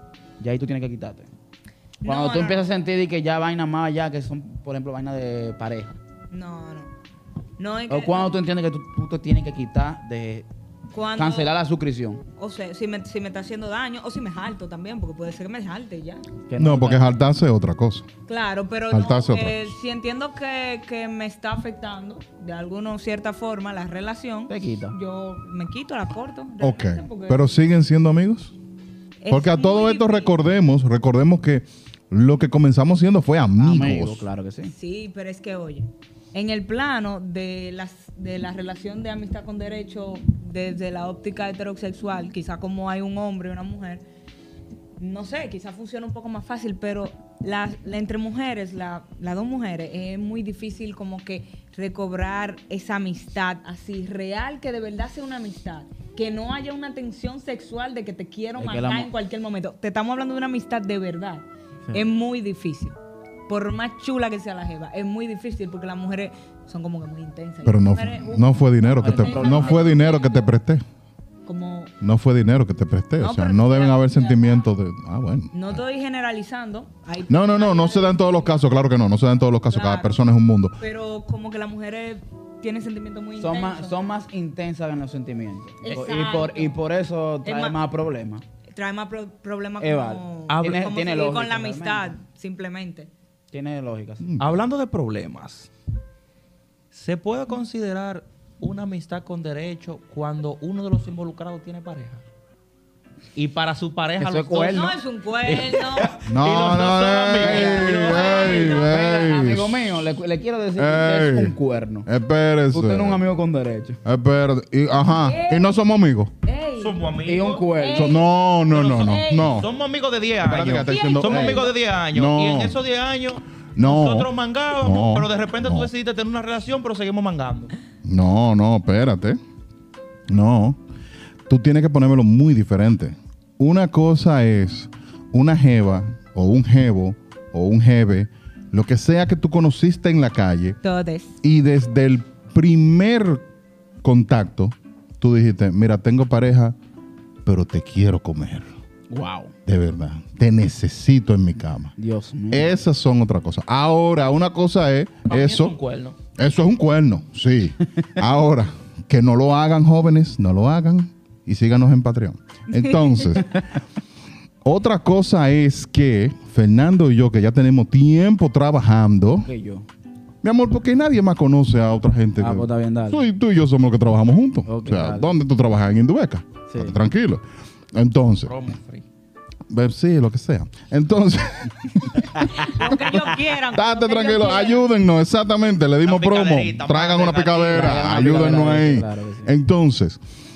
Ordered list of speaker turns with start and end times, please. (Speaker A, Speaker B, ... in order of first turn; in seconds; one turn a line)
Speaker A: 0.4-1.3
Speaker B: 2.0-2.6
Speaker A: 2.0-6.0
Speaker B: 6.3-6.9
Speaker B: 7.6-8.3
Speaker A: 7.9-10.5
Speaker B: 10.9-11.5
Speaker A: 11.2-12.2
Speaker B: 12.4-16.2
Speaker A: 16.5-17.1
Speaker C: 16.6-18.1
Speaker B: 18.3-27.5
Speaker C: 18.9-19.7
Speaker A: 24.5-24.9
Speaker C: 26.6-28.5
Speaker B: 29.2-30.3
Speaker C: 29.3-34.2
Speaker A: 33.6-34.7
Speaker B: 34.6-44.0
Speaker B: 45.0-70.5
Speaker A: 58.6-59.1
Speaker C: 67.6-70.8
Speaker A: 69.0-70.0
Speaker B: 71.5-71.9
Speaker C: 72.0-75.8
Speaker B: 73.2-74.6
Speaker B: 75.5-78.6
Speaker C: 77.3-80.8
Speaker B: 79.7-80.2
Speaker B: 80.8-84.0
Speaker A: 83.4-88.4
Speaker B: 85.8-86.8
Speaker B: 87.4-87.8
Speaker B: 88.7-93.1
Speaker A: 89.8-92.1
Speaker D: 90.5-90.8
Speaker A: 93.5-94.2
Speaker C: 94.2-94.5
Speaker D: 94.4-95.7
Speaker D: 96.9-102.2
Speaker D: 103.3-104.9
Speaker A: 104.2-104.9
Speaker B: 104.7-106.2
Speaker D: 105.5-108.8
Speaker C: 106.2-109.8
Speaker A: 107.4-112.1
Speaker B: 107.9-109.3
Speaker C: 110.8-111.5
Speaker C: 112.0-113.2
Speaker A: 112.7-114.0
Speaker C: 114.0-116.3
Speaker B: 115.0-115.8
Speaker B: 116.4-117.0
Speaker D: 116.8-117.7
Speaker A: 117.2-118.2
Speaker B: 117.7-118.3
Speaker C: 117.9-119.7
Speaker D: 118.7-127.7
Speaker B: 118.9-119.6
Speaker C: 120.4-122.8
Speaker B: 120.8-121.7
Speaker C: 123.8-125.9
Speaker C: 128.0-129.4
Speaker C: 130.3-130.8
Speaker C: 131.5-140.8
Speaker B: 140.8-141.4
Speaker C: 141.4-143.4
Speaker C: 144.0-146.8
Speaker C: 147.4-148.7
Speaker A: 149.1-149.5
Speaker C: 149.7-151.9
Speaker A: 152.0-152.7
Speaker C: 152.5-155.8
Speaker D: 155.3-156.2
Speaker C: 156.3-163.7
Speaker C: 164.6-169.5
Speaker A: 169.4-169.8
Speaker C: 170.4-178.5
Speaker A: 172.4-173.2
Speaker A: 174.7-175.3
Speaker A: 176.7-177.0
Speaker D: 178.4-179.0
Speaker C: 179.7-190.2
Speaker B: 182.4-184.8
Speaker D: 186.0-188.1
Speaker A: 187.7-189.5